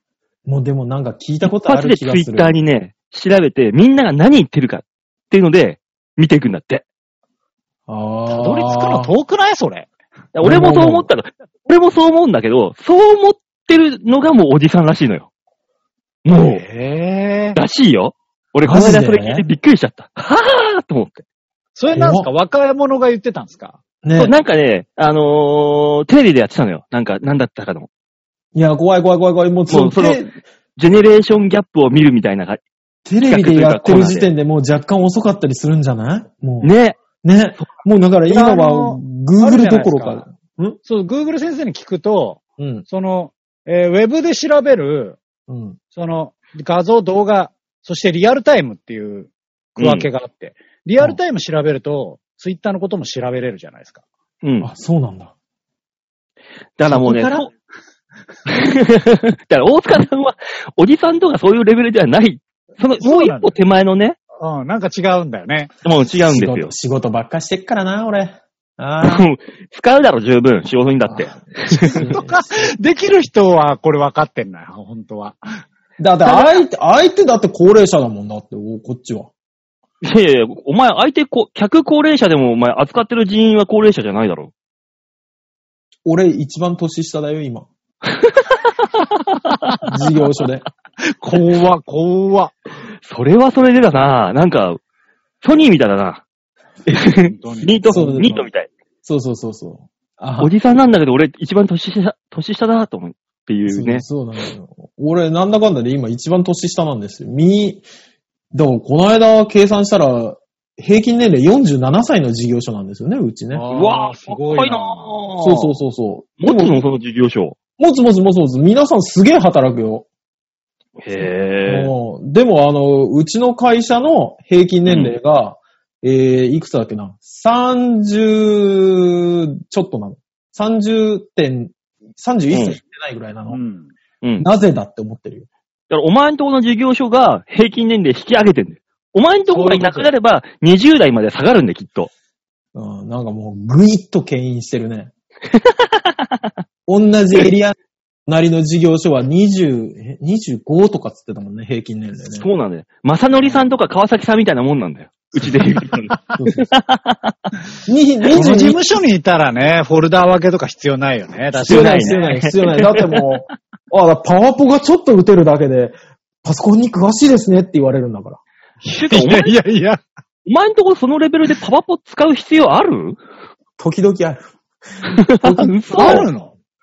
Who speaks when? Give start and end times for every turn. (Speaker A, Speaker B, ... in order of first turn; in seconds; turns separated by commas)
Speaker A: 0.5-2.5, Speaker B: 1.5-6.8, Speaker A: 7.9-9.1, Speaker C: 8.3-9.9, Speaker B: 10.3-15.3, Speaker A: 10.4-11.1, Speaker B: 16.2-16.6, Speaker C: 16.3-17.6, Speaker B: 17.6-21.2, Speaker A: 18.6-19.5, Speaker C: 21.8-23.8, Speaker A: 21.9-22.3, Speaker A: 24.0-24.3, Speaker B: 24.2-27.9, Speaker A: 28.6-30.3, Speaker B: 29.7-30.2, Speaker B: 30.8-32.6, Speaker A: 33.1-40.8, Speaker B: 33.3-34.3, Speaker B: 36.6-37.0, Speaker C: 38.3-40.3, Speaker C: 40.8-45.2, Speaker A: 42.6-42.9, Speaker A: 45.5-45.8, Speaker C: 45.9-54.0, Speaker B: 49.8-50.1, Speaker B: 54.4-54.7, Speaker A: 54.6-55.3, Speaker B: 56.8-57.5, Speaker C: 56.9-57.4, Speaker A: 56.9-57.3, Speaker B: 58.5-64.2, Speaker C: 63.0-63.6, Speaker C: 64.4-65.7, Speaker B: 65.8-66.7, Speaker A: 66.3-69.2, Speaker B: 69.0-72.1, Speaker A: 71.1-72.7, Speaker C: 71.7-75.6, Speaker A: 76.0-79.3, Speaker C: 76.2-76.6, Speaker B: 80.0-84.5, Speaker A: 86.1-87.7, Speaker B: 88.2-88.6, Speaker A: 89.8-90.6, Speaker C: 91.0-92.5, Speaker B: 93.1-94.8, Speaker B: 95.4-96.2, Speaker B: 96.9-98.7, Speaker C: 97.1-98.4, Speaker A: 97.9-98.4, Speaker A: 99.0-100.5, Speaker B: 100.4-104.0, Speaker A: 103.7-107.8, Speaker A: 108.5-113.6, Speaker C: 113.5-115.1, Speaker B: 113.7-115.8, Speaker A: 115.4-116.8, Speaker B: 116.4-117.6, Speaker A: 117.8-120.1, Speaker B: 121.0-121.9, Speaker A: 121.7-133.6, Speaker B: 124.9-125.2, Speaker B: 132.5-132.8, Speaker C: 133.5-133.9, Speaker A: 134.4-135.5, Speaker B: 135.9-142.1, Speaker C: 139.5-140.1, Speaker A: 142.8-145.1, Speaker B: 145.5-146.2, Speaker A: 146.9-147.8, Speaker A: 148.3-152.5, Speaker B: 152.4-157.3, Speaker A: 156.4-156.7, Speaker A: 157.9-158.8, Speaker C: 158.3-162.4, Speaker A: 161.6-168.4, Speaker B: 161.6-163.2, Speaker C: 168.8-170.0, Speaker B: 169.0-169.6, Speaker B: 170.5-173.2, Speaker A: 173.8-174.4, Speaker B: 175.1-176.3, Speaker A: 175.4-176.2, Speaker C: 175.9-176.5